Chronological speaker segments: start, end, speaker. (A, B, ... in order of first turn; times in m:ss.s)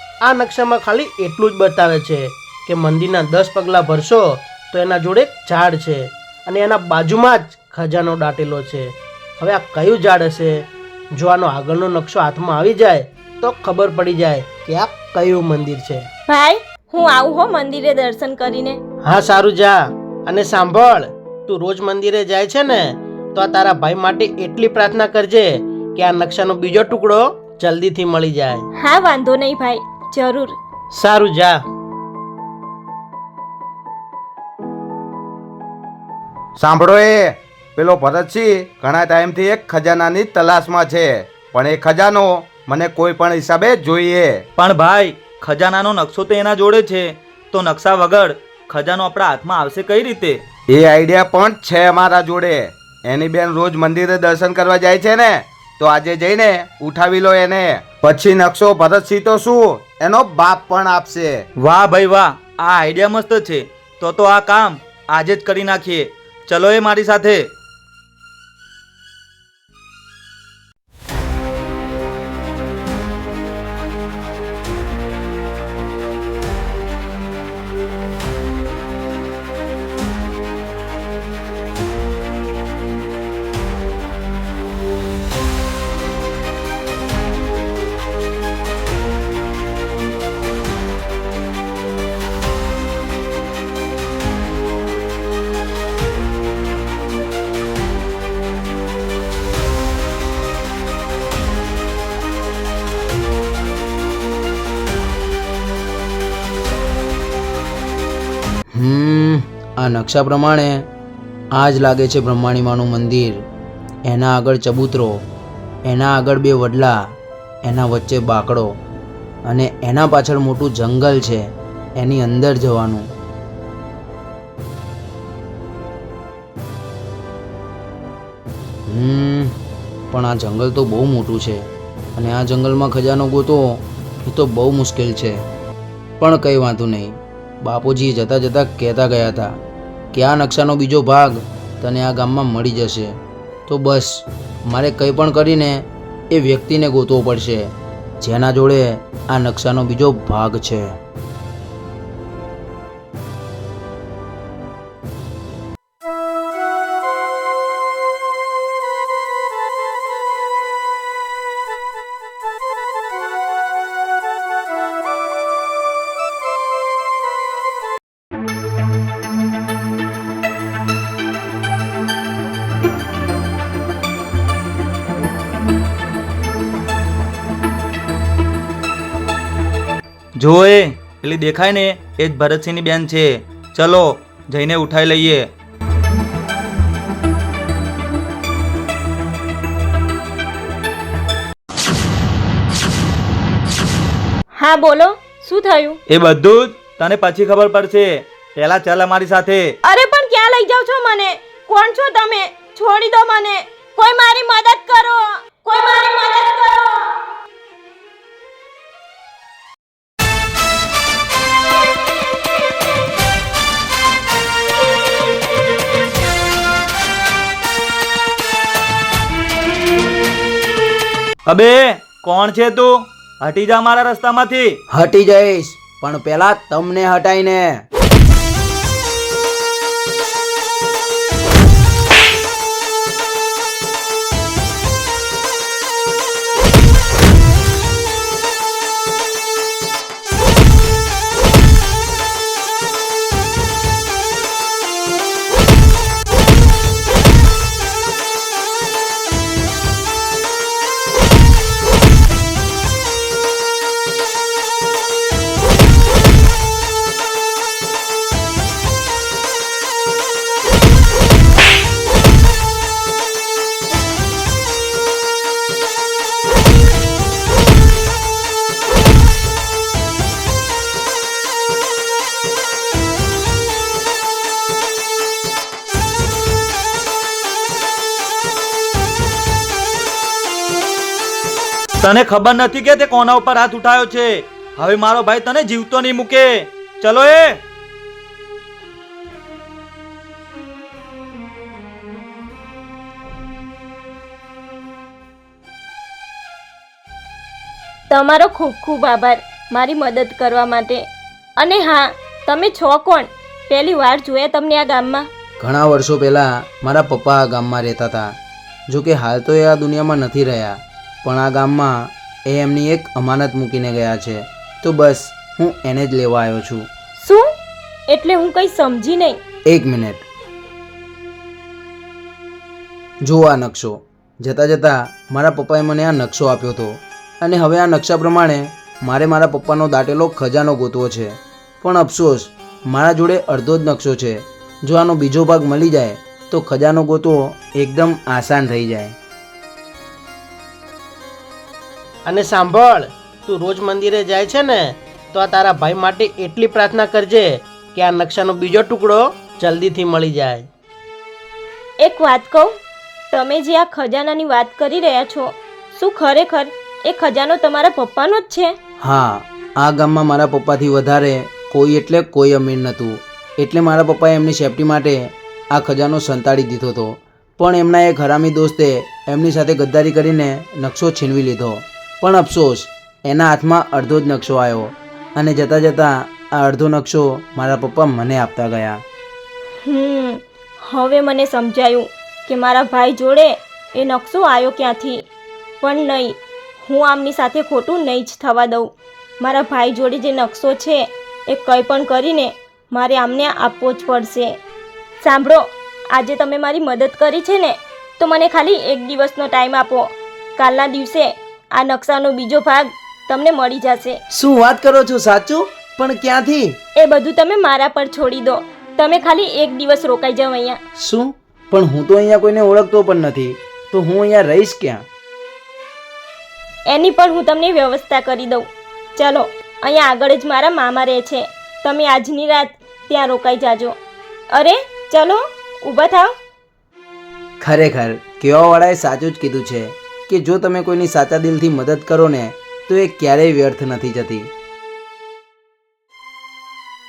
0:00.2-0:16.1 A
0:16.3-0:18.8 B
0:19.0-0:28.6 A
0:28.8-0:30.5 B
0:30.9-0:31.6 A
0:36.6-0:44.4 C
0:44.6-0:50.4 D
0:50.7-1:01.4 C
1:01.6-1:07.5 D
1:48.8-1:50.9 E
1:51.6-1:53.4 E
1:54.1-1:55.2 E
1:55.9-1:57.0 E
1:57.6-1:58.7 E
1:59.5-2:03.1 E
2:08.9-2:09.6 E
2:10.1-2:15.4 E
2:16.2-2:19.5 E
2:20.1-2:23.2 E
2:23.7-2:31.0 E
3:00.4-3:05.5 D
3:14.6-3:16.0 B
3:16.1-3:19.7 D
3:19.8-3:27.2 B
3:41.5-3:44.8 D
3:44.9-3:47.8 E
4:42.0-4:47.6 D
4:58.1-5:01.0 B
5:01.6-5:05.3 B
5:05.6-5:08.3 E
5:08.9-5:16.9 E
5:17.2-5:17.4 B
5:18.1-5:19.4 B
5:19.7-5:20.2 E
5:23.2-5:39.2 E
5:42.2-5:50.7 A
5:52.0-5:52.7 B
5:53.3-5:58.7 B
5:59.0-6:19.0 E
6:19.9-6:25.2 B
6:25.8-6:28.9 B
6:29.4-6:34.5 B
6:35.2-6:35.6 B
6:36.1-6:44.2 B
6:44.3-6:46.8 E
6:47.0-6:50.8 B
6:51.0-6:55.0 E
6:56.9-7:03.9 B
7:04.5-7:06.3 B
7:07.6-7:14.5 E